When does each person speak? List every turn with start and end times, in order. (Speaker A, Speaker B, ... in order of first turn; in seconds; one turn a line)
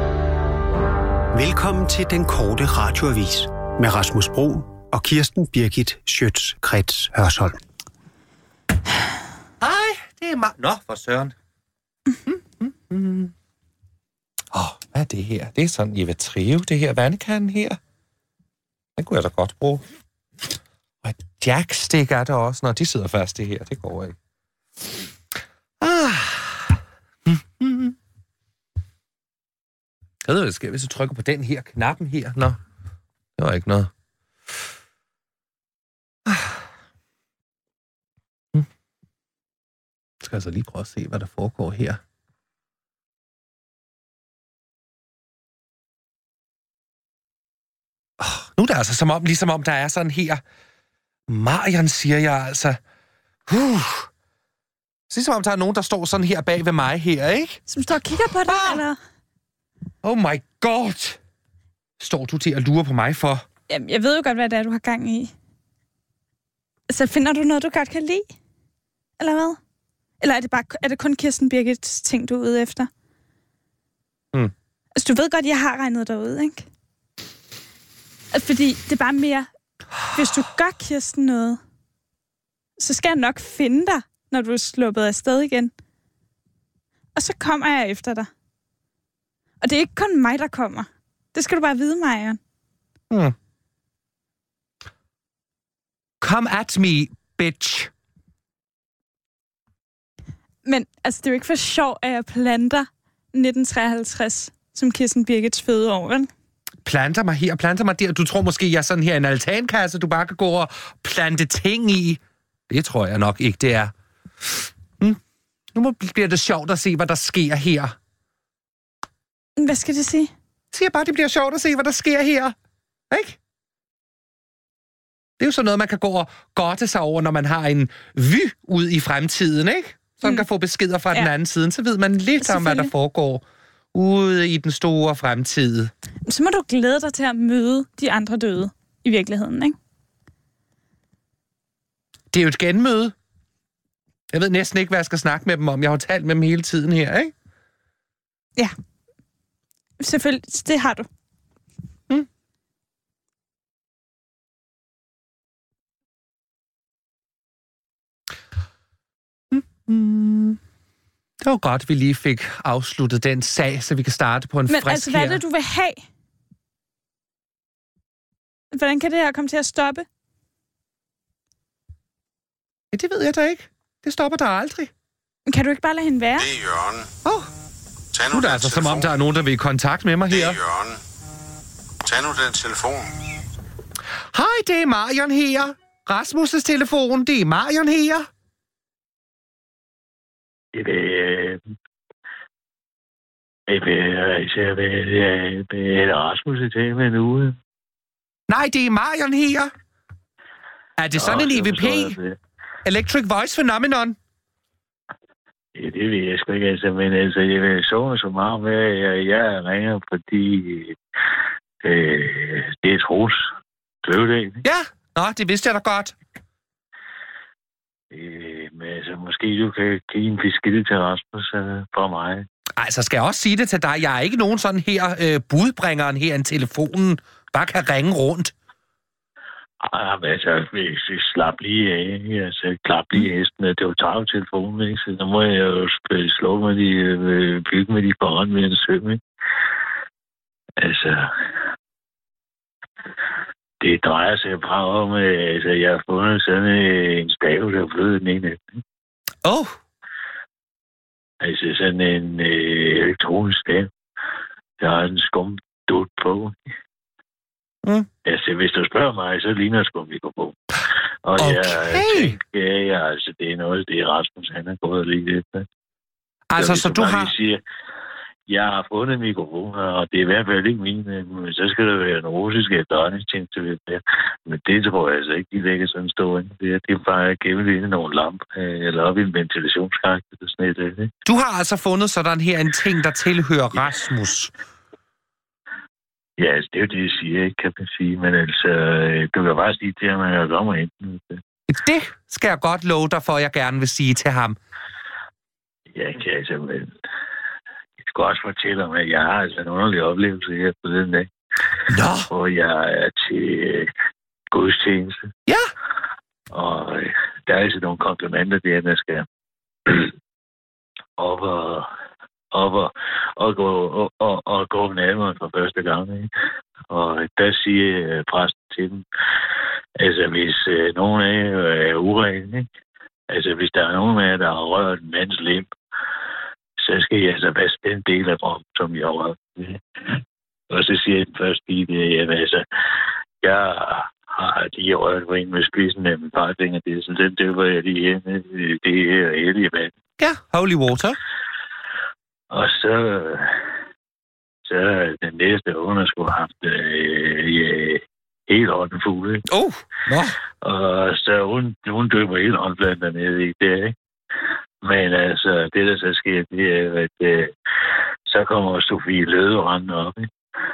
Speaker A: 1.3-7.6
Speaker B: 9.6-11.3
Speaker B: 12.2-13.3
Speaker B: 14.5-17.8
Speaker B: 19.0-19.8
Speaker B: 21.0-24.2
Speaker B: 25.8-28.0
Speaker B: 30.2-32.6
Speaker B: 33.4-33.9
Speaker B: 36.2-36.6
Speaker B: 40.2-42.0
Speaker B: 48.2-50.4
Speaker B: 51.3-52.8
Speaker B: 53.5-54.1
Speaker B: 55.1-57.6
Speaker C: 57.7-59.0
Speaker B: 58.5-58.8
Speaker B: 60.0-61.2
Speaker B: 62.0-63.5
Speaker C: 63.7-65.3
Speaker C: 66.9-68.2
Speaker C: 69.2-69.6
Speaker C: 70.2-72.9
Speaker C: 75.0-76.6
Speaker C: 78.3-79.5
Speaker C: 80.1-81.6
Speaker C: 82.8-85.7
Speaker C: 87.2-88.3
Speaker C: 89.6-92.4
Speaker B: 93.1-93.3
Speaker B: 96.2-97.9
Speaker C: 100.7-106.3
Speaker B: 106.8-115.2
Speaker B: 115.7-118.0
Speaker C: 119.6-120.3
Speaker B: 120.7-122.5
Speaker B: 123.1-123.4
Speaker B: 125.4-135.9
Speaker C: 132.4-132.9
Speaker C: 136.3-139.8
Speaker B: 142.3-143.1
Speaker B: 144.3-147.3
Speaker C: 150.0-151.1
Speaker B: 159.5-160.6
Speaker B: 161.4-165.4
Speaker C: 164.7-166.0
Speaker C: 168.7-170.1
Speaker B: 172.9-174.9
Speaker C: 175.5-176.5
Speaker D: 176.4-177.1
Speaker D: 178.1-179.1
Speaker B: 178.3-180.6
Speaker D: 180.3-181.0
Speaker D: 182.1-183.1
Speaker B: 184.3-188.3
Speaker E: 190.7-191.6
Speaker E: 193.7-197.6
Speaker B: 198.5-199.7
Speaker B: 201.0-202.2
Speaker E: 201.2-202.4
Speaker B: 202.8-204.2
Speaker E: 205.8-211.0
Speaker E: 211.8-213.5
Speaker E: 214.0-214.6
Speaker B: 214.6-216.2
Speaker E: 218.1-222.5
Speaker B: 222.8-228.5
Speaker E: 229.8-239.2
Speaker E: 240.8-241.3
Speaker E: 243.8-248.8
Speaker B: 249.4-249.8
Speaker E: 251.4-253.9
Speaker E: 254.8-256.6
Speaker E: 258.3-260.6
Speaker E: 261.2-265.7
Speaker B: 261.4-262.4
Speaker B: 266.5-267.3
Speaker E: 266.6-267.6
Speaker E: 268.5-281.1
Speaker B: 281.2-284.5
Speaker E: 286.4-291.4
Speaker B: 291.7-294.6
Speaker E: 295.9-296.9
Speaker E: 298.0-301.3
Speaker B: 301.9-302.3
Speaker E: 302.3-303.9
Speaker E: 304.5-305.3
Speaker B: 305.5-305.7
Speaker E: 306.5-309.2
Speaker E: 311.2-311.9
Speaker E: 312.5-316.3
Speaker E: 316.9-319.0
Speaker E: 320.0-322.7
Speaker E: 323.3-325.7
Speaker E: 326.8-329.8
Speaker E: 330.7-332.6
Speaker E: 333.4-339.9
Speaker B: 340.2-341.2
Speaker E: 342.5-343.6
Speaker E: 344.7-349.5
Speaker B: 349.5-350.4
Speaker E: 350.6-353.9
Speaker E: 354.8-357.5
Speaker E: 358.3-360.3